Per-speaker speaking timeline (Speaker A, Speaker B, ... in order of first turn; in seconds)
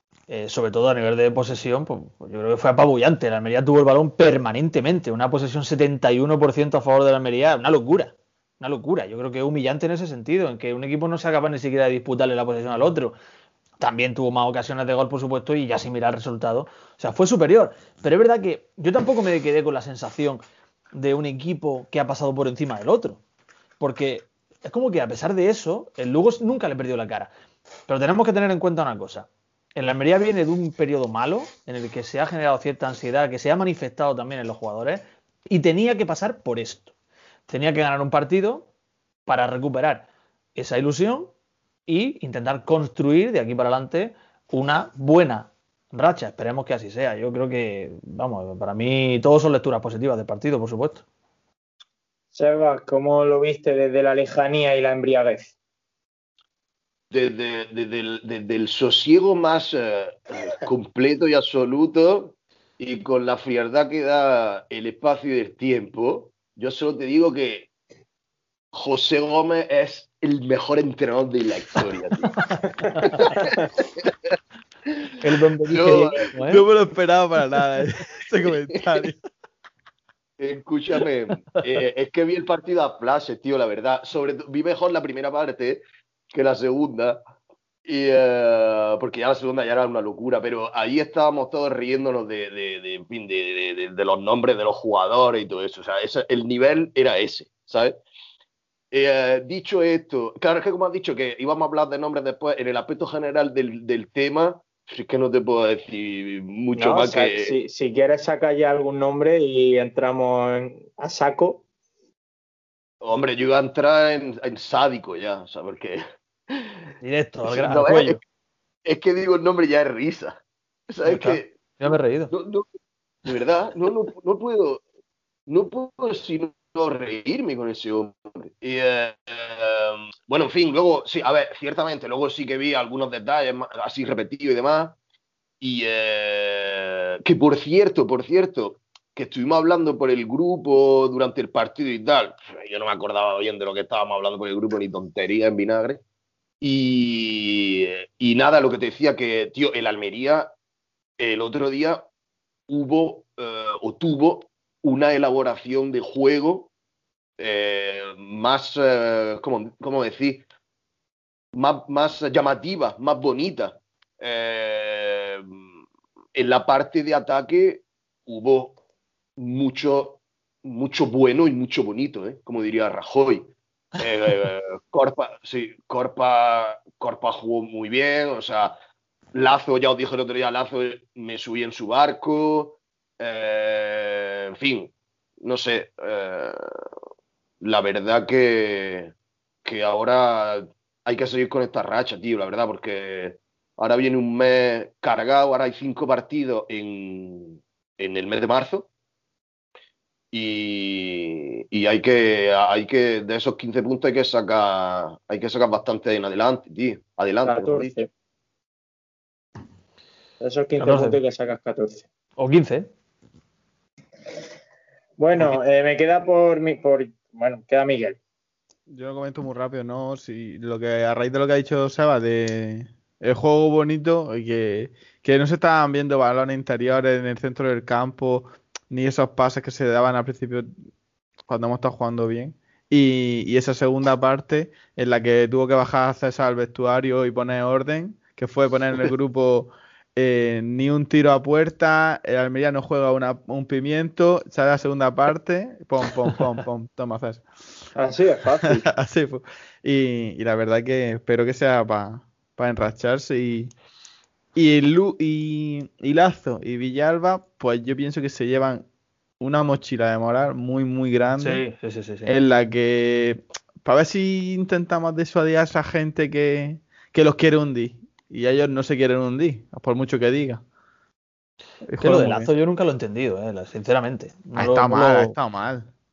Speaker A: 0.3-13.2, 13.8-23.2, 23.8-27.3, 27.9-36.9, 37.5-38.7, 39.3-41.3, 41.9-51.0, 73.0-73.4, 75.2-76.7, 117.0-118.2, 121.0-122.3, 210.8-211.2, 212.4-212.9, 261.4-262.3, 272.0-275.4
Speaker B: 52.3-55.5, 106.7-111.6, 207.4-208.1, 210.4-212.1, 215.2-218.2, 247.9-248.8
Speaker C: 57.1-67.7, 68.7-72.5, 73.0-74.3, 75.7-76.2, 80.4-87.2, 87.8-98.0, 98.9-107.5, 113.0-116.8, 117.5-118.2, 118.8-120.4, 120.9-121.5, 122.3-122.7, 123.2-124.8, 125.5-134.9, 135.6-146.0, 146.6-150.5, 151.2-152.1, 152.7-156.7, 157.4-160.4, 161.5-165.6, 166.3-168.8, 169.4-178.8, 179.3-184.9, 185.4-186.6, 187.6-189.1, 189.6-198.9, 200.3-207.9
Speaker D: 76.4-79.2, 218.9-230.7, 231.5-247.4, 248.8-253.7, 254.5-258.9, 259.4-261.6, 262.2-270.6, 271.8-272.5, 274.6-275.9